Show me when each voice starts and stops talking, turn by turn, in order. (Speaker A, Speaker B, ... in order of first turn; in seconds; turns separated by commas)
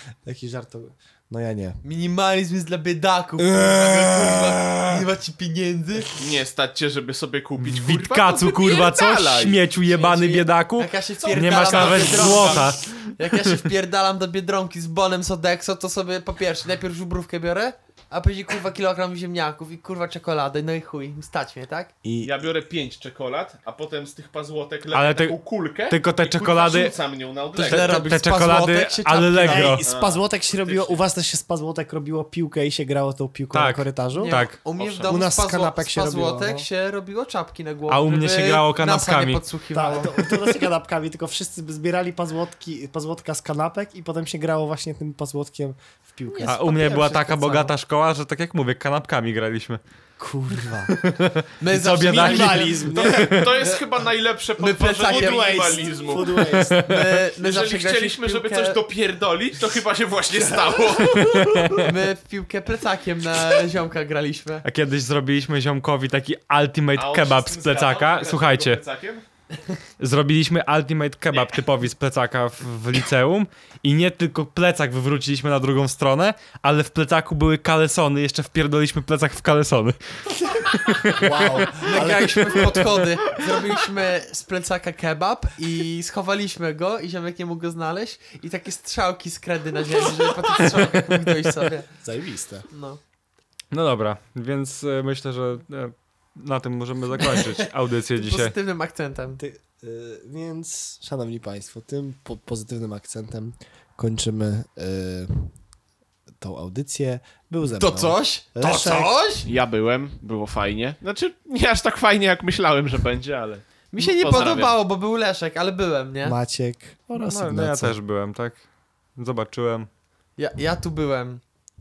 Speaker A: 0.2-1.8, Speaker B: 1.8-6.1, Speaker A: 3.4-5.0, Speaker C: 6.2-9.6, Speaker D: 7.6-13.5, Speaker B: 9.9-21.9, Speaker C: 11.4-12.7, Speaker A: 22.0-22.3, Speaker C: 22.2-28.0, Speaker D: 24.9-25.4, Speaker D: 25.9-26.9, Speaker B: 27.6-29.8, Speaker D: 27.6-29.9, Speaker A: 29.4-34.4, Speaker C: 29.9-31.0, Speaker D: 33.5-34.5, Speaker B: 34.1-40.2, Speaker C: 34.8-35.1, Speaker A: 35.0-36.7, Speaker D: 37.9-39.4, Speaker A: 39.7-46.6, Speaker B: 46.3-47.7, Speaker D: 46.5-49.8, Speaker A: 50.2-50.9, Speaker D: 50.5-53.6, Speaker B: 51.6-53.0, Speaker A: 51.8-53.5, Speaker C: 52.9-56.4, Speaker B: 54.6-56.2, Speaker A: 55.1-56.8, Speaker D: 56.4-57.0, Speaker B: 56.7-58.8, Speaker C: 57.4-61.6, Speaker A: 60.4-61.4, Speaker D: 61.0-61.9, Speaker B: 61.8-64.7, Speaker D: 64.6-68.8, Speaker C: 67.0-69.2, Speaker D: 70.0-83.0, Speaker A: 81.1-82.9, Speaker B: 81.8-91.9, Speaker D: 90.7-91.3, Speaker A: 92.0-92.7, Speaker B: 92.7-93.0, Speaker D: 93.7-98.5, Speaker B: 97.2-99.4, Speaker A: 99.4-105.5, Speaker A: 106.4-109.2, Speaker B: 107.7-109.5, Speaker C: 109.5-114.8, Speaker B: 113.9-116.4, Speaker A: 116.2-118.0, Speaker D: 117.2-118.6, Speaker D: 119.2-119.9, Speaker B: 120.4-121.4